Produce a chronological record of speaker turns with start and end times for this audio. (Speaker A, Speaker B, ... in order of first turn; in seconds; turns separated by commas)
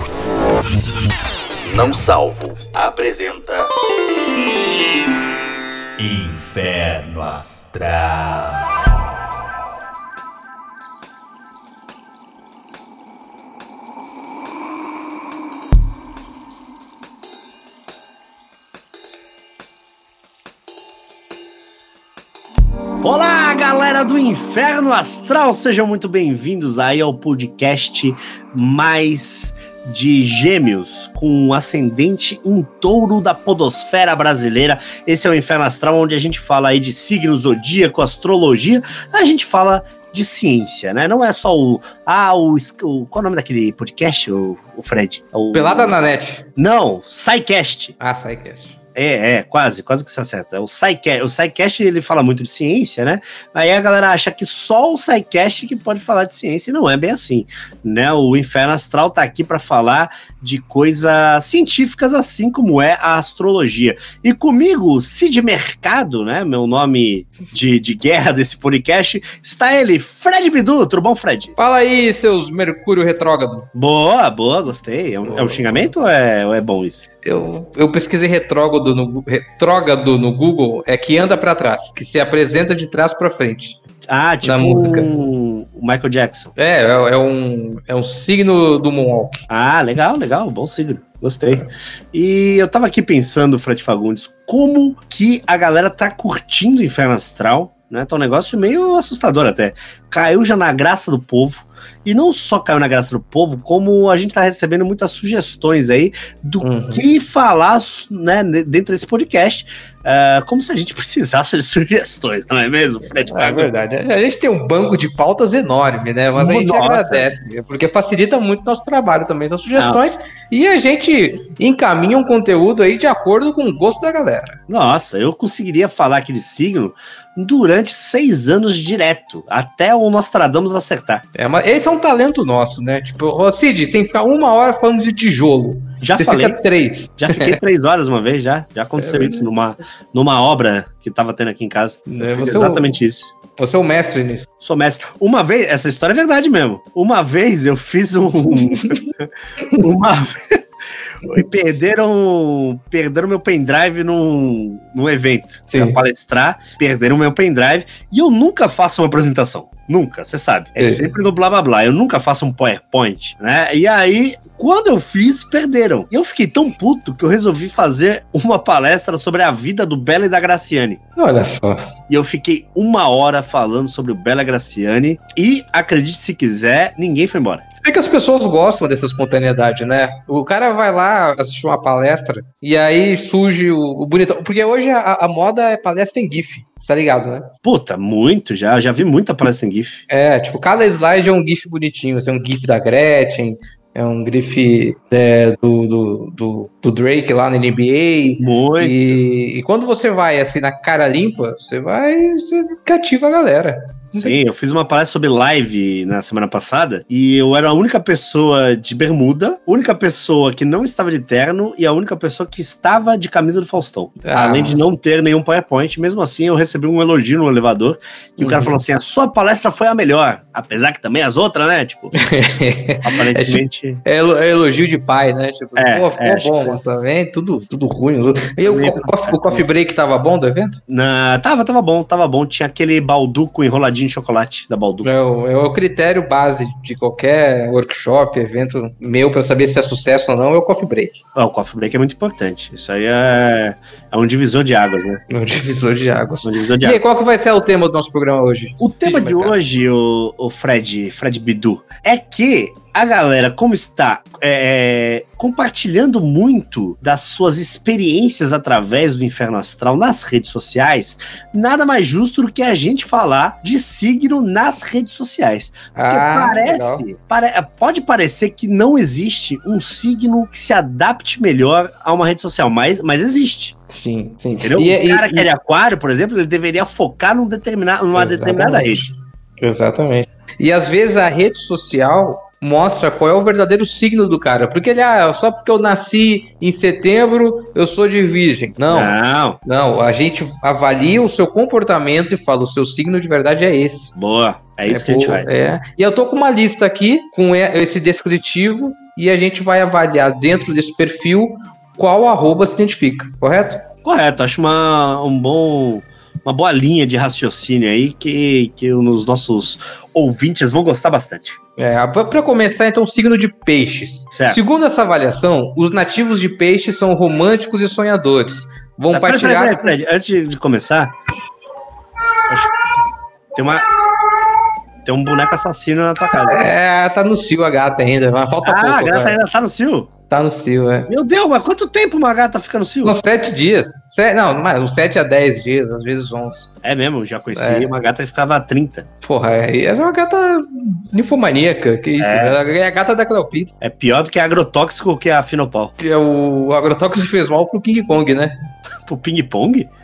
Speaker A: 1.6-3.7, Speaker A: 6.0-8.6, Speaker B: 23.0-46.0, Speaker C: 45.5-46.5, Speaker B: 46.6-48.0, Speaker C: 48.0-48.8, Speaker B: 49.0-71.6, Speaker C: 71.6-73.7, Speaker B: 73.7-77.0, Speaker C: 75.2-75.9, Speaker C: 77.2-83.8, Speaker B: 84.1-86.5, Speaker C: 84.4-85.1, Speaker C: 86.6-89.5, Speaker B: 89.5-113.7, Speaker C: 106.6-107.0, Speaker C: 113.2-124.6, Speaker B: 116.3-117.3, Speaker B: 124.7-131.2, Speaker C: 131.3-137.6, Speaker B: 136.0-136.6, Speaker B: 137.2-143.3, Speaker C: 139.0-139.5, Speaker C: 142.1-142.9, Speaker C: 143.6-144.5, Speaker B: 144.6-150.6, Speaker B: 151.2-171.0, Speaker C: 155.7-156.0, Speaker C: 160.8-161.1, Speaker C: 171.2-171.8, Speaker B: 172.1-177.6, Speaker C: 177.8-187.5, Speaker B: 187.6-190.0, Speaker C: 190.1-204.3, Speaker B: 198.4-199.2, Speaker B: 204.2-222.1, Speaker C: 214.2-214.9, Speaker C: 218.4-218.8, Speaker C: 222.2-230.8, Speaker B: 223.0-224.0, Speaker B: 225.8-226.8, Speaker B: 228.6-229.6, Speaker B: 230.9-235.1, Speaker C: 235.0-241.2, Speaker B: 241.3-245.2, Speaker C: 245.3-249.6, Speaker B: 246.4-247.0, Speaker B: 248.8-273.8, Speaker C: 265.9-267.0, Speaker C: 273.9-275.5, Speaker B: 274.6-279.1, Speaker C: 278.1-294.1, Speaker B: 288.9-289.6, Speaker B: 294.1-295.5, Speaker C: 294.9-303.8, Speaker B: 304.0-311.6, Speaker C: 311.8-319.9, Speaker B: 314.3-314.6, Speaker B: 319.1-321.1, Speaker B: 323.5-323.9, Speaker B: 325.0-326.6, Speaker C: 326.4-329.4, Speaker B: 328.6-330.1, Speaker C: 330.3-331.1, Speaker B: 331.1-333.2, Speaker C: 333.0-336.7, Speaker B: 336.8-339.1, Speaker C: 337.5-337.9, Speaker C: 339.2-343.7, Speaker B: 342.2-342.6, Speaker B: 343.8-345.9, Speaker C: 346.0-348.5, Speaker B: 349.0-349.9